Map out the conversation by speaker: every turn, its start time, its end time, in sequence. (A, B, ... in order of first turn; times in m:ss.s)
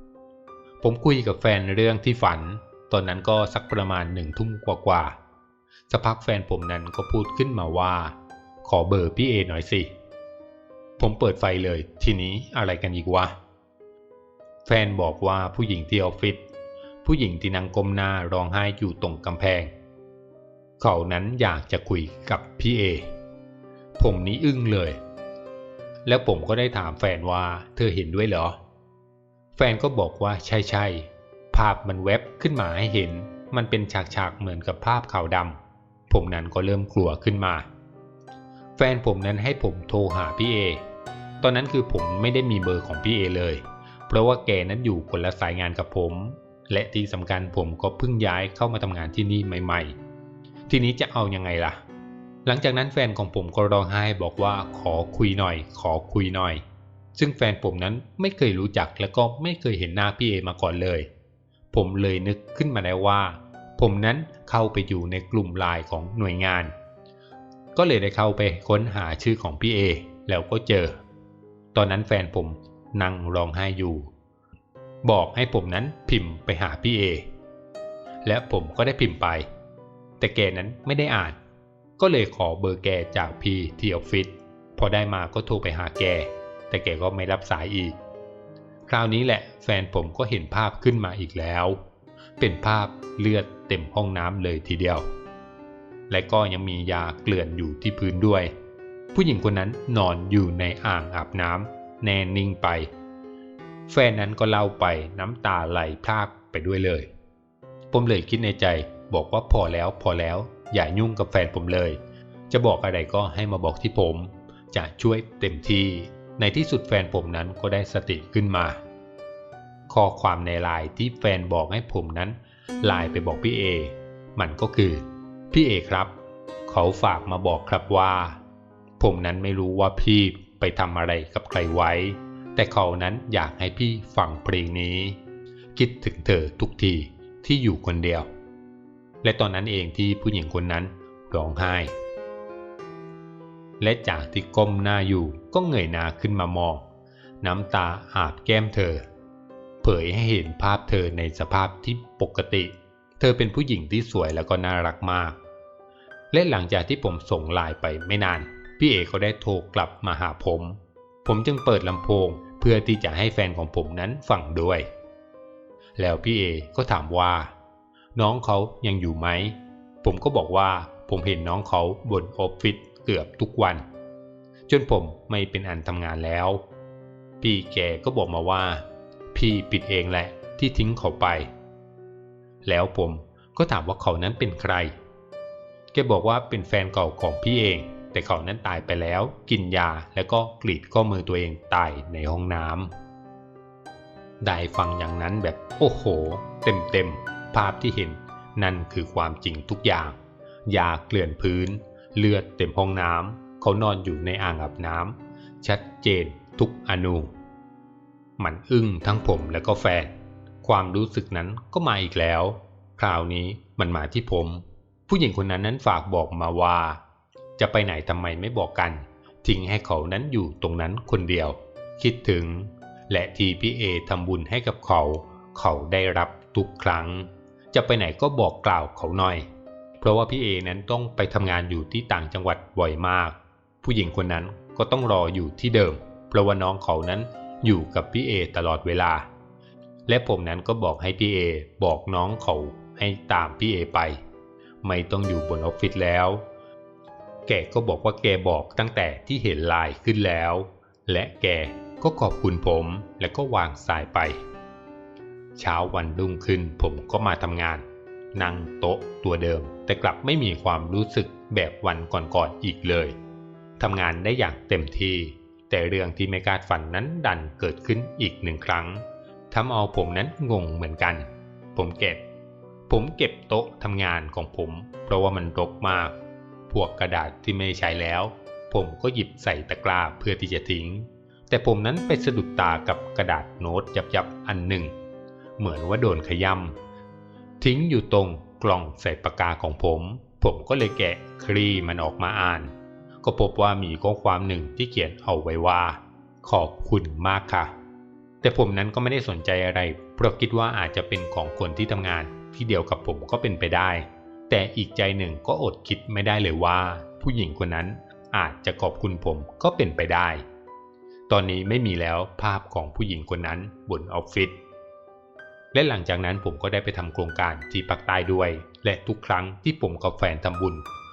0:00.8-0:05.2 A
0:05.9-0:09.9 A
0:11.0-0:13.4 A
0:14.6-0:16.4 A
0:17.0-0:19.7 A
0:20.8-0:23.1 A
0:24.0-0:25.0 A
0:26.1-0:28.6 A
0:29.6-0:35.6 A
0:36.1-0:37.7 A
0:38.8-0:40.8 A
0:41.4-0:50.0 A
0:50.7-0:51.8 A
0:52.4-0:56.6 A
0:57.2-1:01.1 A
1:01.7-1:06.7 A
1:07.8-1:11.0 A
1:11.7-1:14.1 A
1:15.0-1:17.3 A
1:18.2-1:19.5 A
1:20.2-1:21.4 A
1:22.0-1:28.0 A
1:28.9-1:31.8 A
1:32.4-1:35.0 A
1:36.1-1:38.5 A
1:39.1-1:42.9 A
1:43.9-1:47.1 A
1:47.9-1:58.8 A
1:59.9-2:06.1 A
2:06.7-2:08.4 A
2:09.0-2:15.2 A
2:15.8-2:18.3 A
2:19.2-2:21.9 A
2:23.8-2:26.8 A
2:27.4-2:29.0 A
2:29.8-2:35.4 A
2:36.3-2:44.9 A
2:46.0-2:47.5 A
2:48.2-2:53.8 A
2:54.7-2:56.6 A
2:57.4-3:01.5 A
3:02.6-3:05.0 A
3:05.9-3:12.9 A
3:14.4-3:27.3 A
3:28.4-3:30.1 A
3:30.6-3:37.0 A
3:37.6-3:49.5 A
3:50.0-3:59.3 A
4:00.1-4:04.2 A
4:04.8-4:06.4 A
4:07.5-4:14.4 A
4:15.6-4:23.2 A
4:23.8-4:32.2 A
4:32.9-4:36.1 A
4:36.7-4:44.9 A
4:45.6-4:46.8 A
4:47.6-4:52.7 A
4:53.2-4:57.7 A
4:58.4-5:10.4 A
5:11.3-5:14.6 A
5:15.7-5:20.8 A